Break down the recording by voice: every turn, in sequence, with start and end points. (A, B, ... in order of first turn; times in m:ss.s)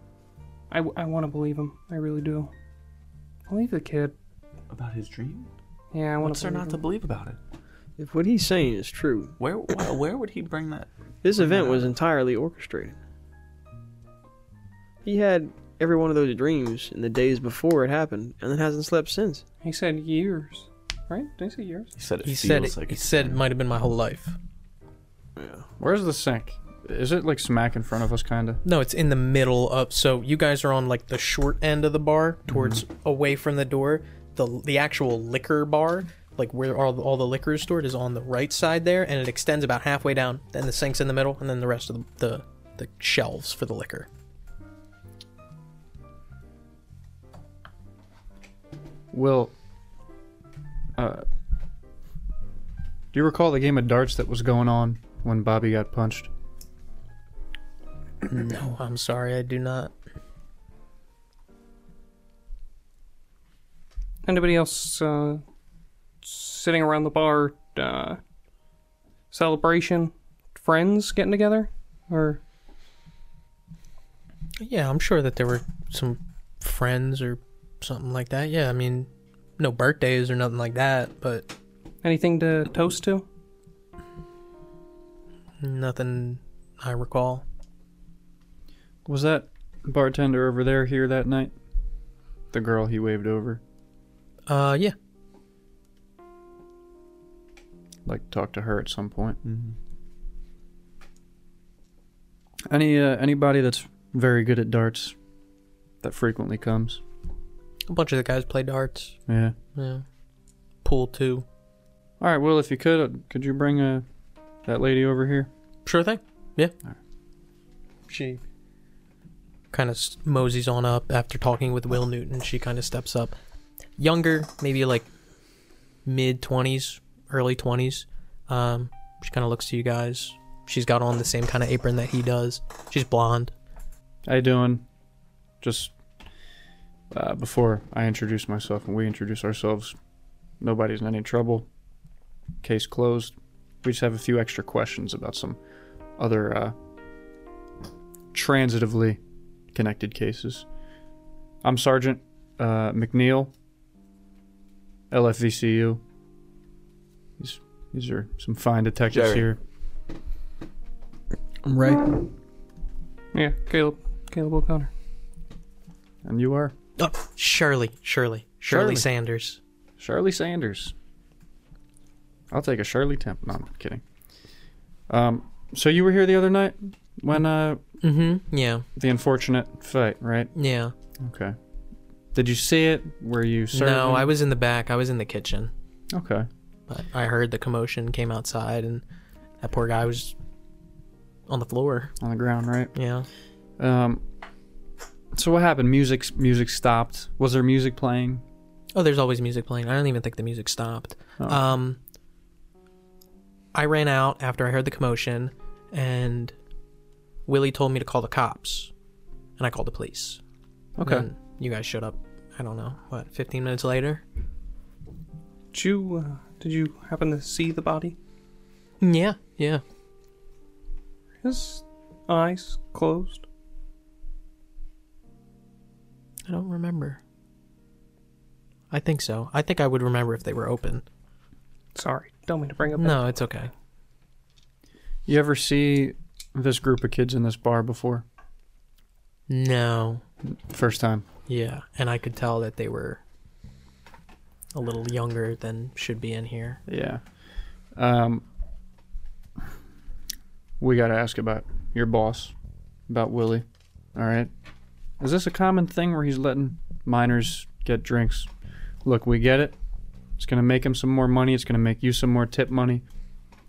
0:00.7-0:02.5 A
0:03.5-0:04.2 A
0:04.7-0:05.5 B
0:05.9-0:06.8 A
0:06.2-0:07.4 B
0:08.0-0:09.4 C
0:09.4-0:11.9 B
0:11.2-0:13.0 C
0:15.0-0:19.4 C
0:19.6-0:21.9 A
0:22.0-0:23.4 B
0:22.2-0:24.4 D
0:25.4-0:25.7 C
0:25.8-0:28.6 E
0:28.6-0:44.1 D
0:32.5-0:32.8 E
0:49.1-0:49.5 E
0:51.0-0:51.3 E
0:53.1-0:56.3 E
0:58.2-0:59.9 D
1:04.2-1:05.4 A
1:06.2-1:08.2 A
1:09.3-1:12.4 A
1:14.6-1:21.5 D
1:22.0-1:23.2 A
1:25.6-1:27.4 D
1:29.1-1:31.6 E
1:32.5-1:33.6 E
1:34.5-1:35.0 D
1:38.0-1:39.4 E
1:39.4-1:39.8 B
1:42.7-1:45.2 E
1:46.0-1:47.0 E
1:47.9-1:49.2 D
1:49.3-1:49.6 E
1:49.8-1:50.0 D
1:50.8-1:51.4 D
1:52.2-1:54.0 E
1:54.7-1:55.5 E
1:55.9-1:56.7 D
1:58.1-1:58.4 D
1:59.7-2:03.4 D
2:04.0-2:05.1 D
2:06.1-2:13.5 D
2:14.3-2:14.9 E
2:15.6-2:15.9 E
2:17.1-2:20.0 E
2:20.6-2:21.7 E
2:22.6-2:25.6 E
2:26.2-2:26.8 E
2:28.3-2:29.2 E
2:29.7-2:30.7 E
2:31.6-2:33.5 E
2:35.1-2:36.0 E
2:37.4-2:39.6 E
2:39.1-2:39.4 B
2:41.6-2:42.3 C
2:43.3-2:44.9 A
2:46.2-2:46.7 E
2:47.0-2:49.6 D
2:48.7-2:49.1 E
2:50.0-2:50.9 E
2:52.5-2:54.0 E
2:55.1-2:57.8 E
2:58.0-2:58.9 D
2:59.0-3:00.5 E
3:00.6-3:00.9 D
3:01.2-3:01.6 E
3:02.3-3:04.3 E
3:03.7-3:05.7 D
3:06.1-3:06.5 E
3:06.9-3:09.0 D
3:09.6-3:10.4 D
3:11.5-3:12.1 D
3:12.2-3:13.0 E
3:13.0-3:13.3 D
3:13.8-3:14.2 E
3:15.3-3:18.4 E
3:18.9-3:22.0 D
3:23.7-3:26.6 D
3:27.5-3:28.9 D
3:29.6-3:30.4 D
3:31.0-3:31.3 E
3:31.0-3:34.2 D
3:35.7-3:38.2 A
3:39.0-3:39.8 D
3:41.4-3:43.4 A
3:46.5-3:47.2 D
3:48.9-3:51.0 D
3:52.0-3:53.3 A
3:53.0-3:53.7 D
3:55.3-3:58.2 E
3:59.5-4:00.2 D
4:00.5-4:01.3 E
4:01.5-4:03.2 D
4:04.8-4:06.8 D
4:06.9-4:07.2 E
4:08.0-4:08.4 E
4:10.8-4:12.6 E
4:13.1-4:14.5 E
4:15.2-4:18.5 E
4:19.0-4:19.8 E
4:20.4-4:23.0 E